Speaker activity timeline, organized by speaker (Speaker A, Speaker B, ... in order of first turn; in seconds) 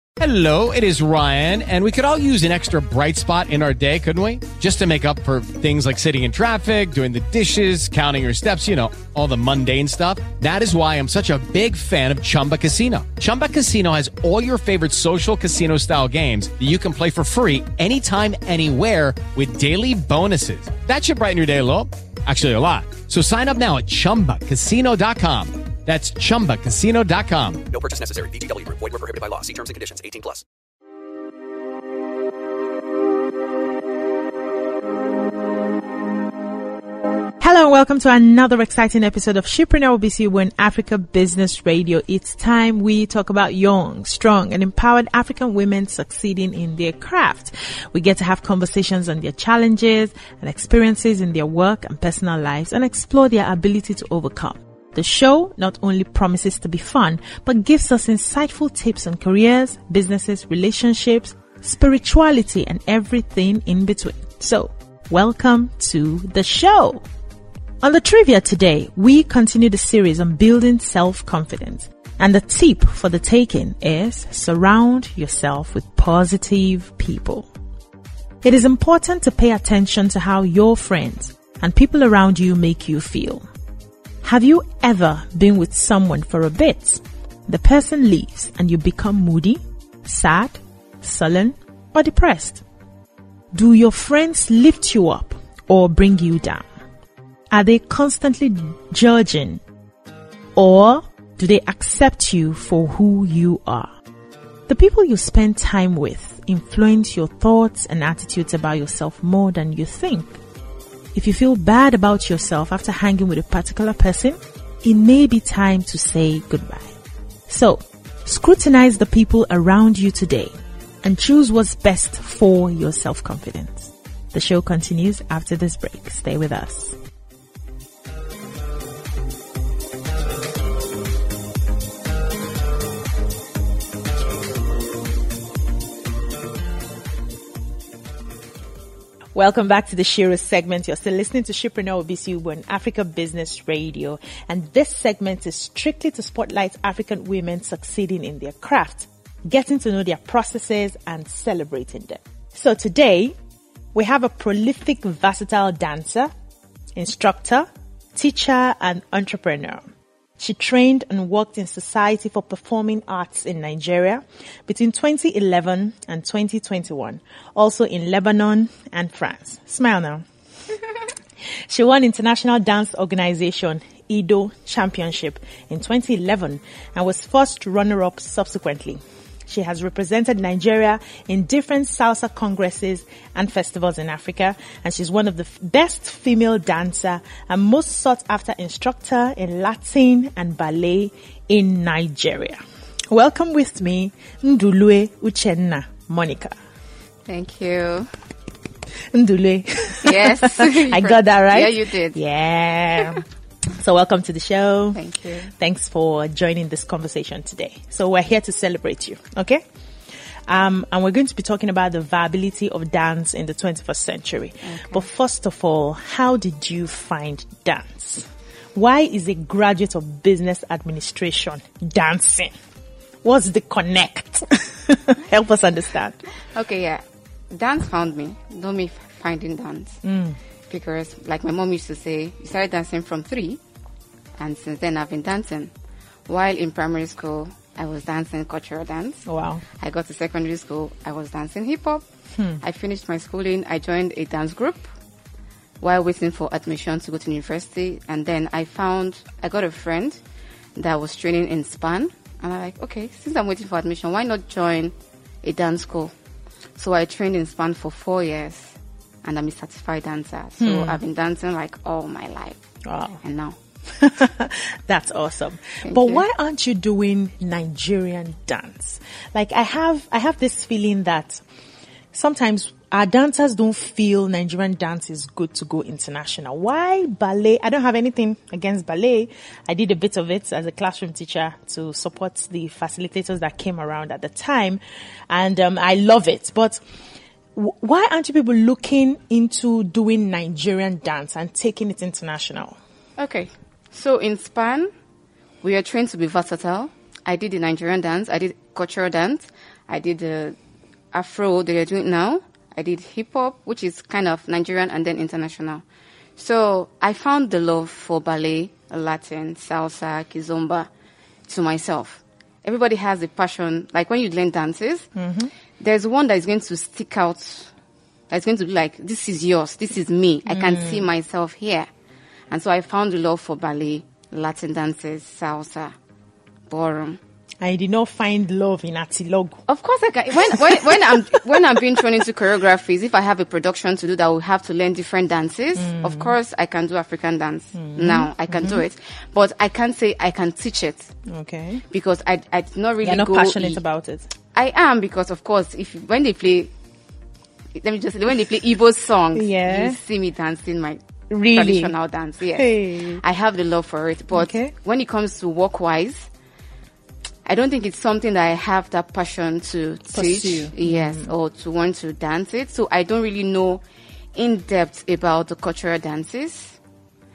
Speaker A: 0.2-27.6
Speaker B: 27.7-30.4
Speaker C: 37.4-67.0, 67.8-77.5, 78.4-83.4, 84.2-92.6, 93.5-96.7, 97.5-99.6, 100.5-103.9, 104.7-110.4, 111.1-116.9, 117.5-127.0, 139.3-153.3, 153.9-156.3, 156.9-159.8, 160.4-170.2, 171.7-196.5, 199.1-203.2, 203.8-205.0, 205.5-209.6, 210.5-222.5, 223.2-226.2, 230.0-230.4, 239.2-239.6, 242.3-242.6, 260.6-261.0, 262.8-263.2, 263.9-271.4, 272.1-286.8, 287.5-292.8, 315.1-315.5, 320.5-321.0, 327.6-329.6, 330.5-332.0, 335.8-336.3, 337.7-338.8, 341.3-341.8, 343.0-344.3, 349.3-350.0, 351.3-351.9, 352.5-353.2, 354.3-354.7, 360.1-361.3
Speaker D: 197.3-198.1, 200.0-202.2, 204.9-205.5, 214.6-215.1, 226.4-230.0, 230.7-233.6, 234.4-235.7, 236.3-239.2, 239.8-242.0, 242.6-244.9, 245.8-250.2, 250.8-256.1, 256.8-262.6, 263.2-263.6, 265.8-266.2, 293.2-294.9, 295.6-300.6, 301.1-305.8, 306.4-310.9, 311.5-315.1, 315.8-317.7, 318.3-321.9, 322.5-325.9, 326.7-327.2, 329.7-341.1, 341.9-343.8, 344.5-346.7, 347.8-351.0, 351.5-356.3, 357.4-363.8, 364.3-366.8